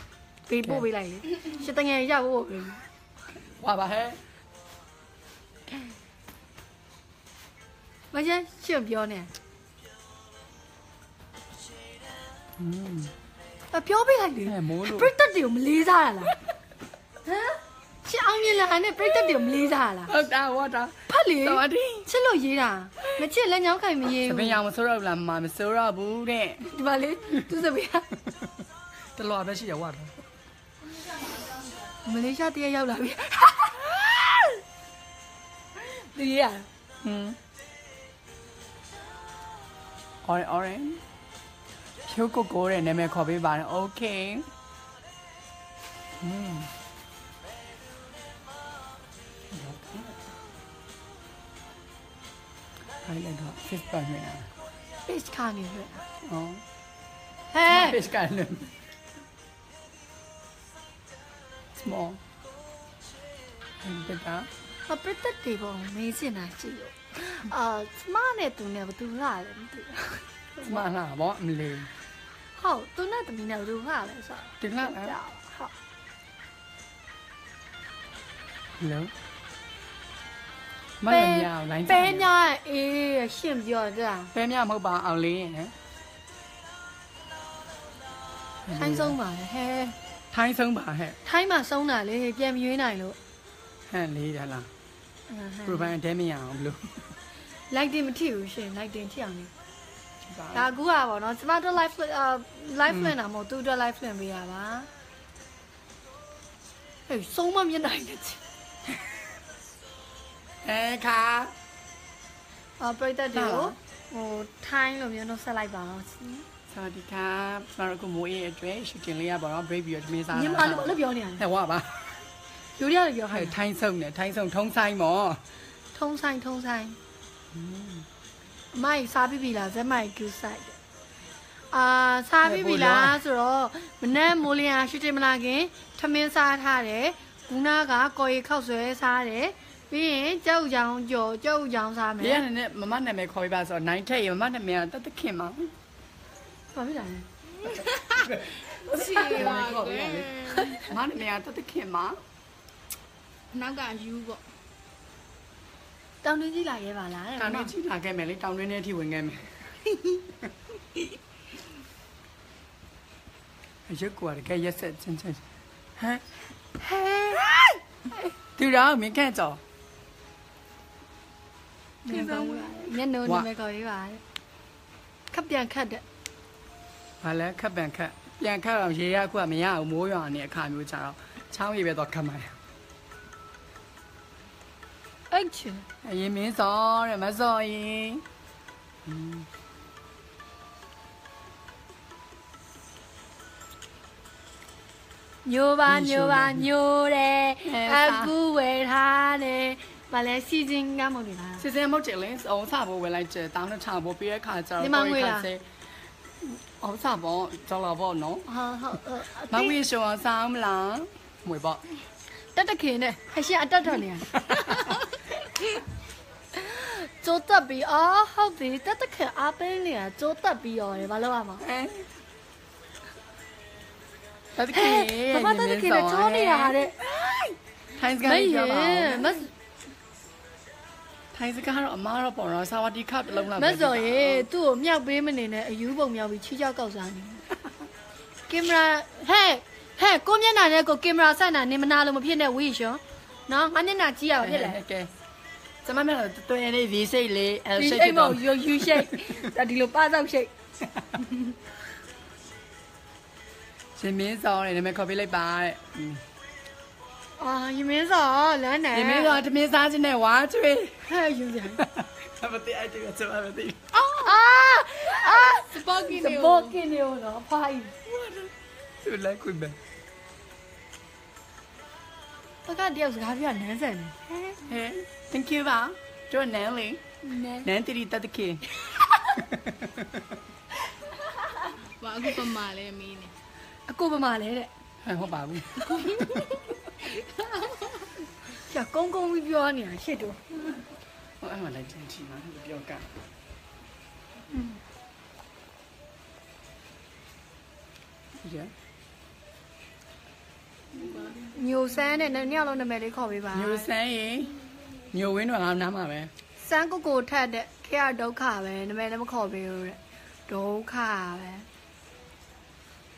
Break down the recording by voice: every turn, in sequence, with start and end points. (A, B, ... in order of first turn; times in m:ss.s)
0:00.5-0:02.8 A
0:03.4-0:04.2 B
0:08.1-0:09.3 A
0:12.6-0:13.1 B
0:13.7-0:16.4 A
0:14.4-0:15.1 B
0:17.2-0:20.1 A
0:20.1-0:22.1 B
0:21.1-0:24.6 A
0:24.2-0:26.7 B
0:26.6-0:28.1 A
0:29.1-0:30.1 B
0:31.3-0:31.8 C
0:32.0-0:34.5 A
0:35.8-0:36.7 A
0:37.0-0:37.4 B
0:40.2-0:41.0 B
0:42.0-0:44.5 B
0:46.2-0:46.7 B
0:49.5-0:50.2 B
0:53.0-0:54.5 B
0:55.0-0:56.0 A
0:56.2-0:56.6 B
0:57.5-0:58.0 A
0:57.6-0:58.7 B
1:01.7-1:02.2 B
1:03.8-1:04.5 B
1:04.8-1:10.8 A
1:10.6-1:11.9 B
1:12.6-1:15.7 A
1:14.6-1:15.1 B
1:18.8-1:19.1 B
1:21.0-1:22.3 B
1:21.1-1:24.3 A
1:24.3-1:25.7 B
1:28.6-1:29.2 B
1:28.7-1:30.0 A
1:30.3-1:31.2 B
1:31.2-1:33.2 A
1:33.9-1:34.7 B
1:35.3-1:35.9 A
1:35.6-1:37.1 B
1:37.7-1:39.5 A
1:40.2-1:40.7 B
1:40.5-1:44.9 A
1:42.9-1:43.1 B
1:47.1-1:48.4 A
1:50.6-1:51.5 B
1:52.8-1:56.4 A
1:53.3-1:53.8 B
1:56.7-2:02.2 B
2:00.3-2:01.4 A
2:02.8-2:03.5 A
2:03.3-2:05.4 B
2:05.9-2:07.0 A
2:07.5-2:08.1 B
2:08.7-2:10.8 A
2:11.7-2:22.4 A
2:12.4-2:13.2 B
2:22.2-2:25.7 B
2:26.7-2:27.9 A
2:28.2-2:32.2 B
2:28.7-2:30.8 C
2:28.9-2:29.6 A
2:33.5-2:34.4 C
2:36.2-2:37.7 A
2:37.4-2:39.7 B
2:43.9-2:45.4 B
2:46.0-2:46.2 B
2:46.8-2:47.6 A
2:48.6-2:49.6 B
2:52.0-2:54.2 A
2:52.2-2:52.6 B
2:55.3-2:56.0 A
2:57.2-3:02.6 B
3:05.3-3:05.8 A
3:06.0-3:08.2 B
3:09.0-3:09.5 B
3:15.4-3:21.6 A
3:15.9-3:16.7 B
3:17.6-3:18.3 B
3:21.6-3:25.6 B
3:24.8-3:25.5 A
3:26.4-3:28.5 B
3:28.4-3:29.8 A
3:29.5-3:31.9 B
3:32.5-3:34.9 A
3:34.5-3:34.9 B
3:36.5-3:41.6 A
3:41.6-3:42.1 B
3:44.5-3:46.8 B
3:44.7-3:47.6 A
3:47.9-3:49.4 B
3:48.2-3:49.5 A
3:51.3-3:54.5 B
3:53.5-3:57.6 A
3:58.5-4:04.8 A
4:04.4-4:05.1 B
4:05.8-4:09.1 B
4:07.8-4:10.5 A
4:14.0-4:16.2 B
4:17.4-4:19.4 A
4:18.9-4:21.0 B
4:21.0-4:21.8 A
4:21.8-4:23.9 B
4:23.9-4:26.8 C
4:24.1-4:27.9 A
4:28.1-4:29.8 B
4:32.6-4:34.6 A
4:34.6-4:37.0 B
4:37.2-4:37.6 A
4:37.6-4:38.8 B
4:39.3-4:40.3 B
4:41.8-4:43.3 C
4:43.9-4:44.7 A
4:45.0-4:46.1 B
4:45.8-4:48.1 C
4:48.5-4:50.7 A
4:51.4-4:53.1 B
4:54.5-4:54.8 A
4:58.4-4:58.7 B
5:01.1-5:01.4 C
5:01.2-5:03.9 A
5:03.5-5:04.6 B
5:05.1-5:06.3 B
5:06.6-5:11.7 A